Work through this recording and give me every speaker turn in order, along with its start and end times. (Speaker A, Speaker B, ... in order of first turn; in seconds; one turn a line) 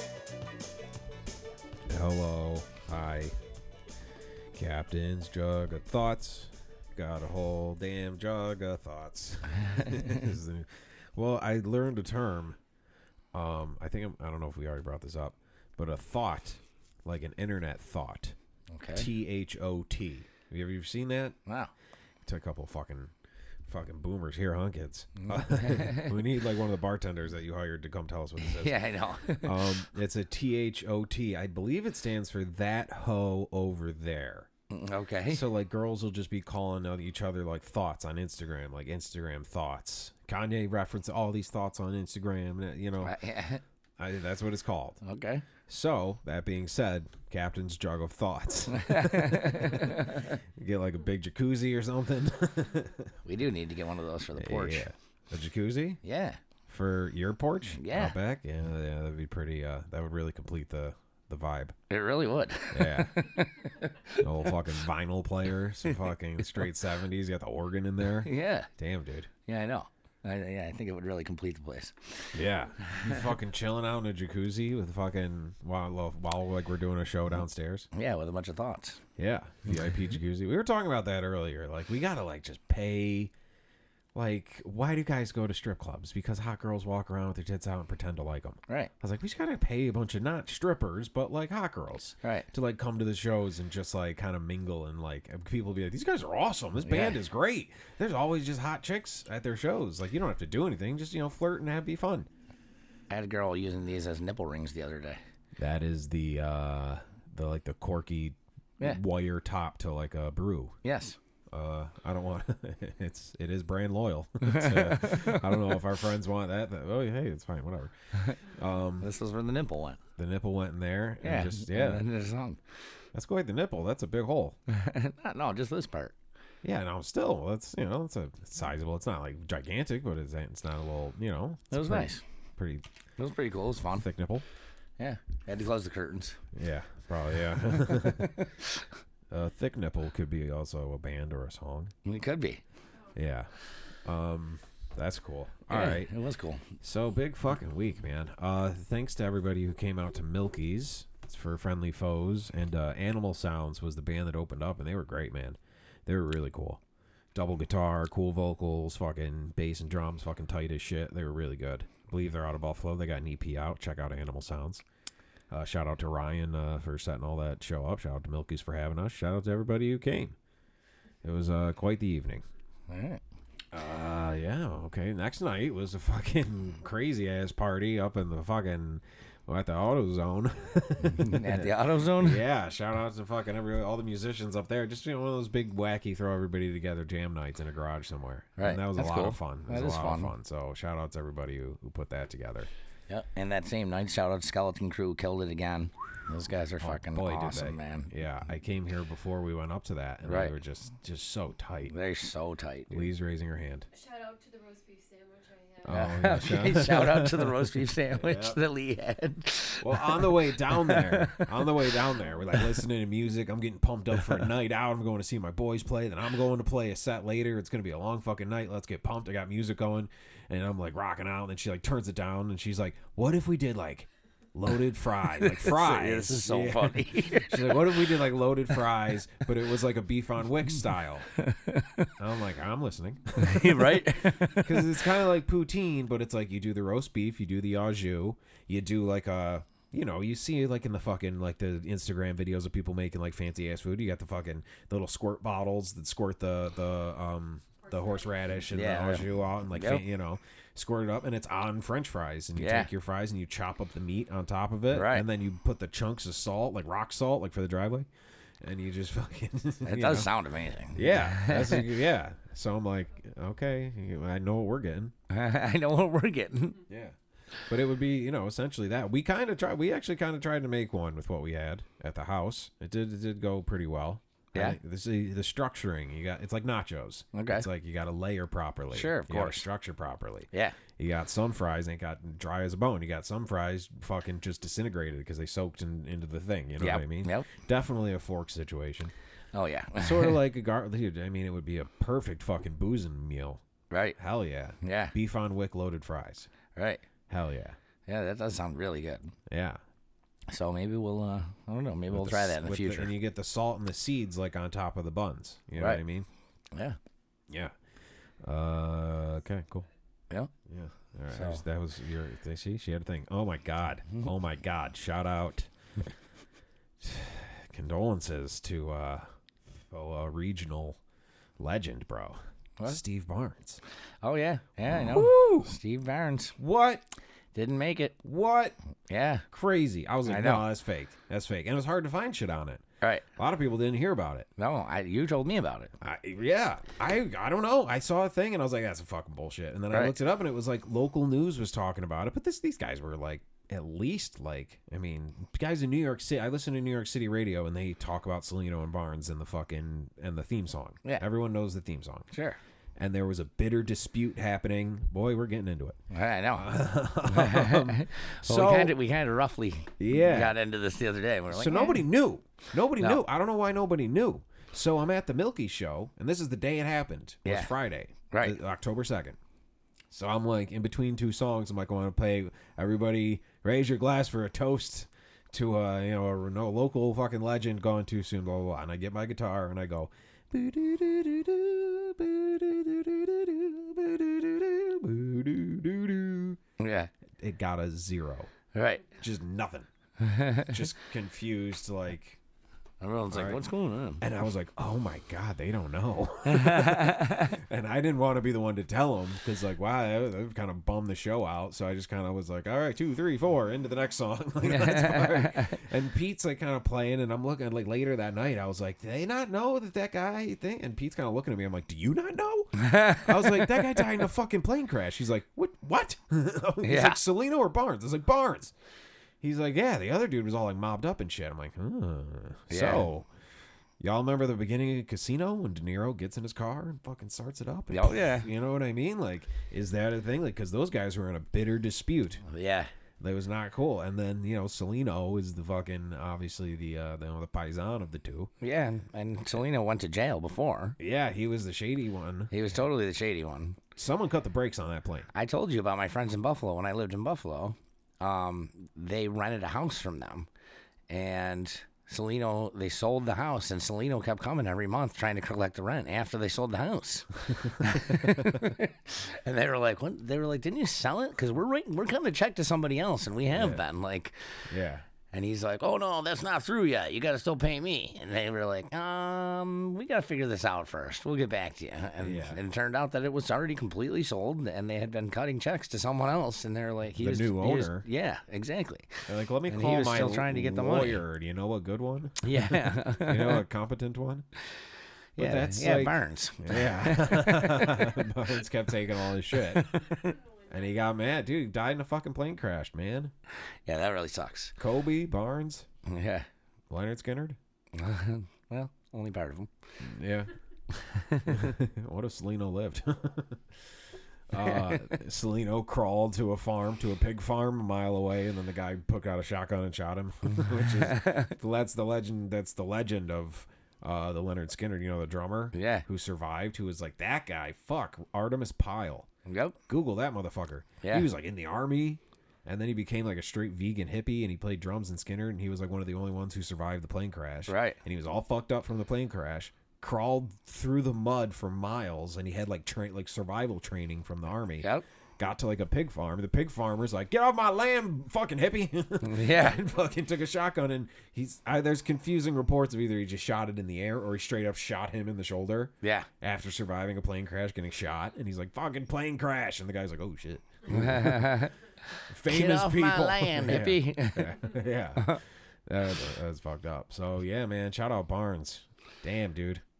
Speaker A: 1.9-3.3
Speaker A: 4.5-12.6
Speaker B: 9.6-10.2
Speaker A: 13.3-18.4
Speaker B: 18.7-19.1
Speaker A: 18.9-21.4
Speaker B: 21.4-21.7
Speaker A: 22.2-23.1
Speaker A: 23.7-34.5
Speaker B: 25.2-26.1
Speaker B: 28.4-29.6
Speaker B: 34.7-35.4
Speaker A: 35.3-43.2
Speaker B: 43.0-43.6
Speaker A: 44.0-45.0
Speaker B: 45.0-45.4
Speaker A: 45.7-53.1
Speaker B: 48.7-50.3
Speaker B: 53.2-54.9
Speaker A: 54.3-56.0
Speaker B: 56.0-56.4
Speaker A: 56.7-61.8
Speaker B: 57.6-58.1
Speaker B: 61.9-64.5
Speaker A: 62.7-63.3
Speaker A: 64.2-69.3
Speaker B: 68.2-68.7
Speaker B: 69.5-73.2
Speaker A: 72.3-77.9
Speaker B: 77.9-79.0
Speaker A: 79.2-83.3
Speaker A: 84.1-102.3
Speaker B: 92.2-92.5
Speaker B: 96.8-97.2
Speaker B: 103.1-105.2
Speaker A: 105.6-110.8
Speaker B: 110.8-111.2
Speaker A: 111.5-119.1
Speaker B: 114.4-115.7
Speaker B: 119.0-120.0
Speaker A: 120.2-122.0
Speaker B: 121.2-122.6
Speaker A: 123.1-124.6
Speaker B: 124.7-126.1
Speaker A: 126.6-132.8
Speaker B: 131.7-132.2
Speaker B: 133.2-134.0
Speaker A: 133.9-134.4
Speaker B: 135.0-136.4
Speaker A: 136.5-138.4
Speaker B: 137.5-138.9
Speaker A: 139.3-141.9
Speaker B: 142.0-142.6
Speaker A: 143.2-143.5
Speaker A: 144.0-146.1
Speaker B: 145.7-146.7
Speaker A: 146.8-156.8
Speaker A: 157.3-164.8
Speaker A: 165.5-170.3
Speaker A: 171.2-172.4
Speaker B: 172.9-173.2
Speaker A: 173.7-192.7
Speaker B: 181.0-182.4
Speaker B: 188.6-190.3
Speaker B: 193.1-198.1
Speaker A: 196.8-201.9
Speaker B: 200.2-200.5
Speaker B: 201.9-203.1
Speaker A: 202.9-203.9
Speaker C: 203.9-206.2
Speaker A: 205.8-208.6
Speaker B: 205.9-212.8
Speaker A: 209.8-231.3
Speaker B: 225.4-228.2
Speaker B: 231.3-232.1
Speaker A: 232.2-258.1
Speaker B: 233.4-235.0
Speaker C: 247.9-248.6
Speaker B: 248.7-250.0
Speaker B: 252.6-252.9
Speaker B: 254.9-255.2
Speaker A: 258.6-260.3
Speaker B: 259.8-261.9
Speaker A: 260.9-265.1
Speaker B: 265.3-266.8
Speaker A: 266.9-267.1
Speaker A: 267.7-289.1
Speaker B: 277.3-277.6
Speaker B: 278.9-279.6
Speaker B: 280.5-280.8
Speaker B: 286.8-287.5
Speaker B: 289.5-290.4
Speaker A: 290.0-293.6
Speaker B: 293.9-294.2
Speaker A: 294.2-296.5
Speaker B: 294.8-295.1
Speaker B: 296.8-297.0
Speaker A: 297.3-297.8
Speaker B: 298.1-299.3
Speaker A: 299.5-299.8
Speaker B: 300.5-303.1
Speaker A: 302.1-306.3
Speaker B: 306.7-307.0
Speaker A: 307.5-307.7
Speaker A: 308.4-309.9
Speaker A: 310.7-315.7
Speaker B: 311.3-311.6
Speaker A: 317.0-319.3
Speaker A: 319.9-321.0
Speaker A: 321.6-323.8
Speaker B: 324.2-326.6
Speaker A: 324.9-325.7
Speaker A: 326.6-327.0
Speaker B: 327.5-328.2
Speaker A: 328.2-328.8
Speaker B: 329.1-329.4
Speaker A: 329.5-332.8
Speaker B: 330.2-330.6
Speaker A: 333.4-334.5
Speaker B: 334.6-335.9
Speaker A: 336.0-352.3
Speaker B: 339.9-340.1
Speaker B: 352.3-352.6
Speaker A: 353.0-356.0
Speaker B: 356.1-362.0
Speaker A: 356.5-358.9
Speaker A: 360.0-360.6
Speaker A: 361.5-369.4
Speaker B: 363.0-363.2
Speaker B: 367.4-367.7
Speaker B: 368.3-368.6
Speaker A: 370.1-386.6
Speaker B: 386.8-387.1
Speaker A: 387.4-388.5
Speaker B: 388.7-389.0
Speaker A: 389.1-389.9
Speaker B: 390.2-390.7
Speaker A: 390.6-392.4
Speaker B: 393.0-394.2
Speaker A: 393.3-393.6
Speaker A: 394.2-418.7
Speaker B: 396.4-397.5
Speaker B: 404.6-405.8
Speaker B: 412.8-414.0
Speaker B: 416.8-417.2
Speaker A: 419.4-423.3
Speaker B: 422.7-423.1
Speaker A: 424.0-432.4
Speaker B: 427.9-428.5
Speaker B: 432.4-432.9
Speaker A: 433.2-438.5
Speaker B: 438.6-441.0
Speaker A: 441.0-442.5
Speaker B: 442.5-443.8
Speaker A: 443.9-445.3
Speaker B: 445.3-450.5
Speaker B: 451.1-464.4
Speaker A: 457.7-458.7
Speaker A: 463.5-463.8
Speaker A: 464.7-465.0
Speaker B: 465.3-481.2
Speaker A: 472.2-472.6
Speaker A: 477.2-478.0
Speaker A: 479.3-484.4
Speaker B: 482.4-483.6
Speaker B: 485.4-488.3
Speaker A: 485.4-493.3
Speaker B: 489.5-490.3
Speaker B: 493.9-494.8
Speaker A: 494.8-495.9
Speaker B: 496.1-496.4
Speaker A: 496.9-497.6
Speaker B: 497.9-499.7
Speaker A: 500.0-500.5
Speaker B: 500.9-501.6
Speaker A: 501.4-503.8
Speaker A: 504.5-519.3
Speaker B: 504.6-505.0
Speaker B: 511.1-511.5
Speaker B: 515.7-516.0
Speaker B: 519.5-519.8
Speaker A: 519.9-534.9
Speaker B: 521.0-521.3
Speaker B: 527.7-528.0
Speaker A: 535.4-551.6
Speaker B: 539.2-539.8
Speaker B: 546.0-546.3
Speaker B: 550.9-554.6
Speaker A: 552.3-559.8